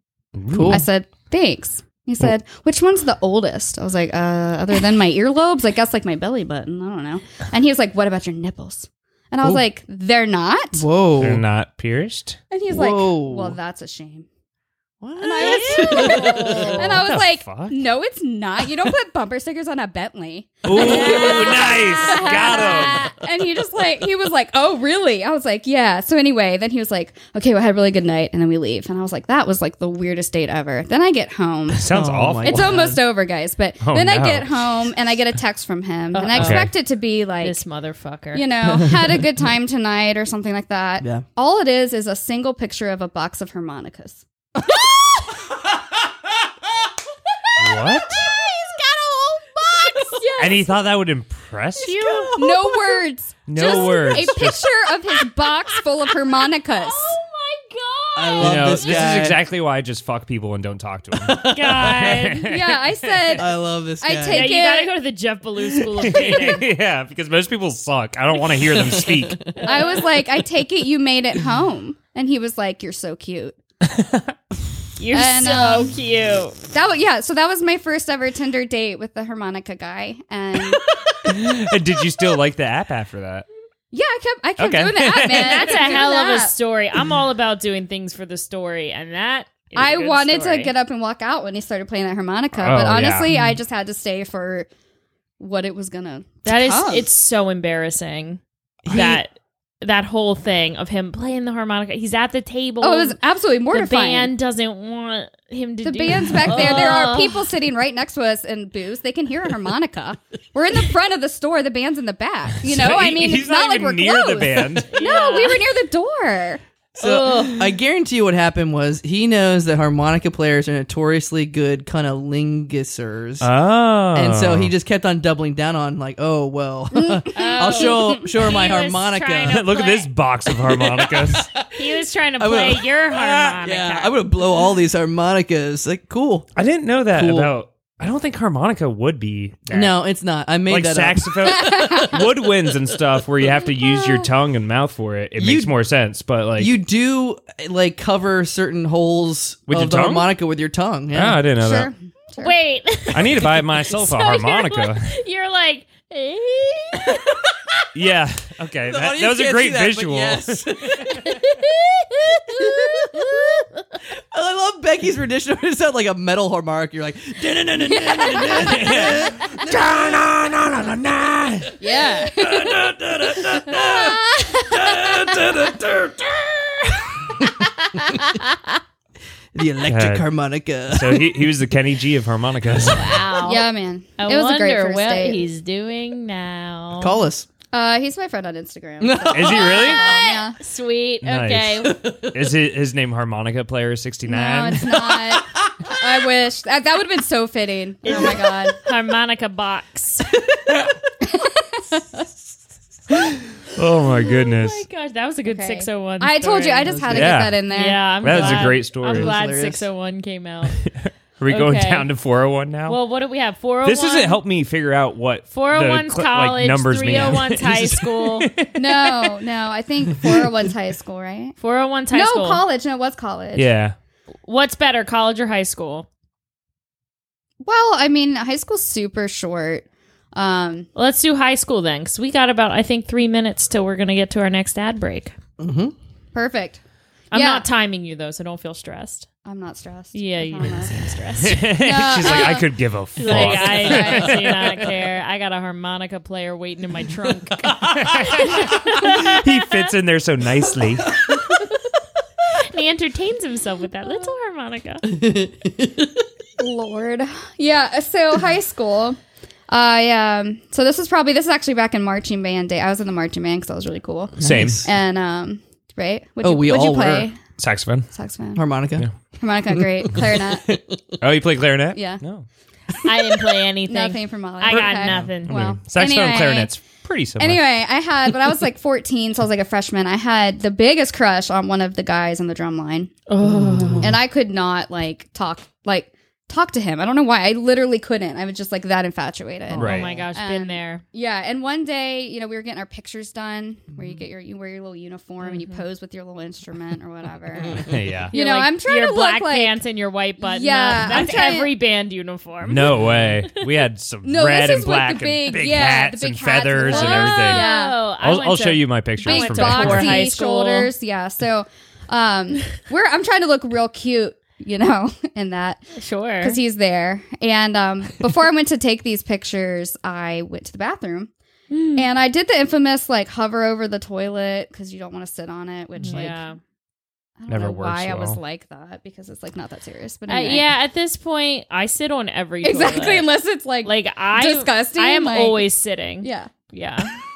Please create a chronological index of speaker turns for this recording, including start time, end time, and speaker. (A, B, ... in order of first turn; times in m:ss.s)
0:00.3-0:00.8 A
0:00.5-0:00.8 B
0:00.7-0:10.8 C
0:10.8-0:11.4 B
0:11.2-0:12.4 A
0:12.5-0:14.3 C
0:12.7-0:13.6 B
0:15.0-0:16.9 B
0:15.2-0:31.9 C
0:15.4-0:16.9 D
0:16.7-0:17.8 A
0:20.6-0:23.1 A
0:20.7-0:21.7 B
0:21.2-0:21.5 D
0:22.2-0:22.8 D
0:31.7-0:32.7 A
0:31.9-0:33.0 B
0:32.4-0:37.6 C
0:33.8-0:34.9 A
0:36.1-0:36.7 D
0:36.4-0:36.7 A
0:37.4-0:38.5 D
0:38.3-0:44.2 C
0:38.6-0:39.3 B
0:44.6-0:45.0 B
0:47.6-0:48.2 A
0:47.8-0:50.5 D
0:50.2-0:50.7 C
0:50.4-0:52.3 A
0:51.8-0:52.5 D
0:52.0-0:53.0 B
0:52.4-0:57.2 C
0:53.5-0:54.7 A
0:53.6-0:54.4 D
0:55.4-0:59.2 D
0:58.2-0:59.4 B
0:58.4-1:03.4 A
1:01.2-1:01.5 B
1:01.4-1:02.5 D
1:02.4-1:03.5 C
1:03.4-1:04.5 B
1:04.0-1:04.9 C
1:04.3-1:06.7 D
1:05.6-1:09.4 A
1:08.7-1:09.6 B
1:09.6-1:10.1 D
1:09.6-1:13.6 C
1:13.8-1:14.3 A
1:15.0-1:16.6 D
1:15.1-1:15.9 C
1:16.7-1:20.8 C
1:21.2-1:23.4 A
1:23.9-1:26.5 C
1:24.6-1:26.0 A
1:25.3-1:30.7 D
1:29.7-1:34.7 C
1:32.5-1:33.3 A
1:33.3-1:33.6 B
1:35.4-1:37.1 C
1:36.4-1:43.2 D
1:38.8-1:39.2 B
1:42.8-1:44.3 C
1:43.7-1:47.4 D
1:45.8-1:56.6 C
1:52.6-1:54.9 A
1:54.9-1:55.7 D
1:57.0-2:03.5 B
1:57.0-1:57.6 D
2:03.4-2:04.7 A
2:04.1-2:09.7 B
2:07.0-2:08.3 C
2:07.3-2:10.1 D
2:09.5-2:11.5 A
2:10.5-2:13.0 B
2:11.7-2:14.2 D
2:13.1-2:13.6 A
2:13.6-2:16.5 B
2:16.6-2:20.0 A
2:17.1-2:17.5 B
2:19.7-2:22.2 B
2:20.7-2:26.8 A
2:21.6-2:22.1 C
2:25.4-2:25.7 B
2:26.6-2:31.4 B
2:29.7-2:30.3 A
2:31.1-2:31.9 A
2:31.6-2:32.5 C
2:32.4-2:37.4 D
2:33.1-2:35.1 A
2:37.9-2:41.4 A
2:38.9-2:41.4 B
2:41.2-2:43.6 D
2:42.4-2:43.6 B
2:44.3-2:50.2 B
2:48.2-2:51.7 A
2:51.8-2:52.8 C
2:52.3-2:56.4 B
2:52.7-2:53.8 A
2:55.2-2:55.9 A
2:57.4-2:58.3 B
2:59.5-3:01.5 B
2:59.8-3:00.3 A
3:00.9-3:03.3 A
3:02.9-3:07.1 D
3:03.4-3:05.4 C
3:07.0-3:07.5 B
3:07.7-3:10.6 C
3:09.0-3:09.9 B
3:09.3-3:10.0 A
3:09.9-3:12.0 D
3:11.2-3:15.1 A
3:11.8-3:12.4 B
3:14.3-3:18.8 C
3:15.0-3:15.7 B
3:18.0-3:20.4 D
3:18.1-3:18.4 B
3:21.3-3:22.2 C
3:23.7-3:24.8 A
3:24.2-3:30.8 D
3:25.5-3:28.5 C
3:26.9-3:27.4 B
3:27.1-3:27.6 A
3:28.2-3:29.4 A
3:28.2-3:29.8 B
3:30.8-3:33.0 A
3:31.5-3:32.1 D
3:32.8-3:34.4 D
3:33.8-3:39.4 A
3:35.5-3:38.5 D
3:38.7-3:41.6 C
3:41.6-3:42.6 D
3:42.1-3:43.7 C
3:43.5-3:44.0 A
3:44.5-3:46.1 D
3:47.6-3:50.9 C
3:50.9-3:55.4 D
3:55.6-3:55.9 B
3:56.3-3:56.8 C
3:57.3-3:59.3 D
3:57.3-3:57.6 C
3:59.4-4:01.1 C
4:00.1-4:02.6 D
4:01.4-4:04.9 A
4:01.7-4:02.7 C
4:03.2-4:09.5 D
4:03.2-4:04.5 C
4:07.7-4:11.2 A
4:12.6-4:15.1 D
4:15.1-4:16.2 B
4:16.6-4:27.4 C
4:24.4-4:24.8 B
4:24.4-4:24.8 A
4:26.4-4:27.3 B
4:27.6-4:28.1 A
4:28.1-4:28.6 C
4:28.5-4:29.1 B
4:29.3-4:30.7 C
4:30.0-4:31.0 B
4:31.2-4:32.4 A
4:31.9-4:32.2 C
4:33.0-4:35.5 D
4:33.9-4:36.7 C
4:34.6-4:37.6 A
4:37.4-4:43.1 C
4:43.3-4:44.0 D
4:43.4-4:44.2 B
4:44.0-4:59.8 C
4:49.7-4:50.1 B
4:49.7-4:50.1 A
4:49.8-4:51.0 D
4:55.4-4:55.8 D
4:57.6-4:58.0 B
4:57.8-4:58.3 A
4:58.3-5:03.6 D
5:00.4-5:01.7 C
5:02.6-5:10.3 A
5:04.2-5:08.0 C
5:06.8-5:10.9 D
5:09.2-5:15.8 C
5:15.9-5:16.6 D
5:16.4-5:21.3 C
5:21.7-5:22.1 D
5:22.0-5:26.4 C
5:26.0-5:26.2 A
5:26.0-5:26.6 D
5:27.4-5:30.7 C
5:27.5-5:28.4 A
5:30.3-5:33.3 D
5:32.6-5:35.7 C
5:33.8-5:37.2 D
5:36.2-5:36.5 C